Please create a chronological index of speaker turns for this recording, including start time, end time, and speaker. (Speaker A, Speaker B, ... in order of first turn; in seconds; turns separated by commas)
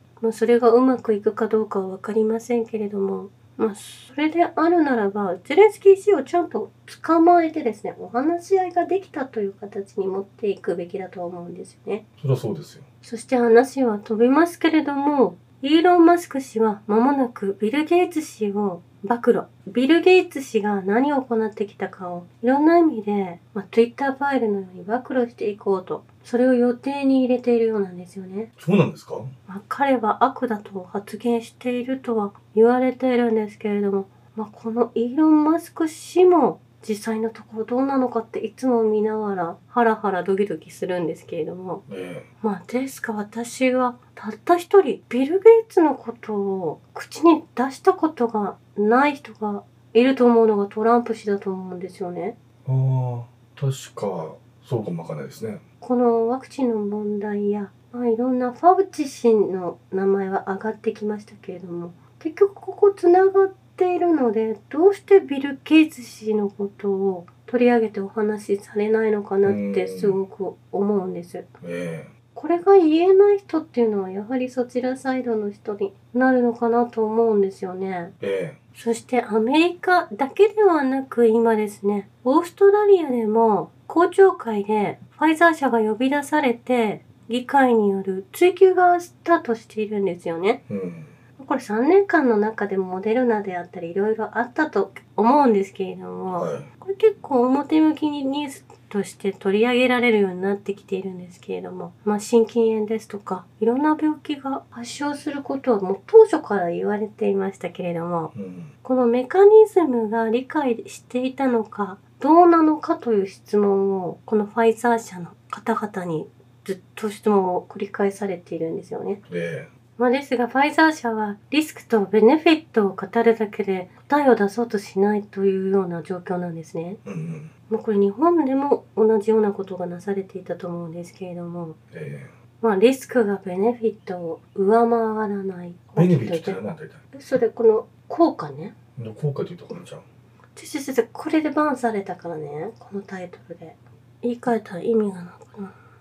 Speaker A: 0.2-12.1, Speaker B: 12.2-12.9, Speaker A: 13.0-28.5, Speaker B: 28.6-29.3, Speaker A: 29.5-41.8, Speaker B: 41.9-42.3, Speaker A: 42.4-52.4, Speaker B: 52.6-55.6, Speaker A: 55.8-71.5, Speaker B: 69.5-70.2, Speaker B: 71.6-72.1, Speaker A: 72.3-78.1, Speaker B: 78.2-78.6, Speaker A: 78.7-90.6, Speaker B: 90.7-91.1, Speaker A: 91.4-108.3, Speaker B: 96.3-96.7, Speaker B: 108.3-108.7, Speaker A: 108.8-119.2, Speaker B: 119.3-119.7, Speaker A: 120.0-127.0, Speaker B: 127.0-127.5, Speaker A: 127.7-131.8, Speaker B: 131.9-132.3, Speaker A: 132.6-136.6, Speaker B: 135.9-137.0, Speaker A: 137.1-138.7, Speaker B: 139.0-140.0, Speaker A: 140.6-145.8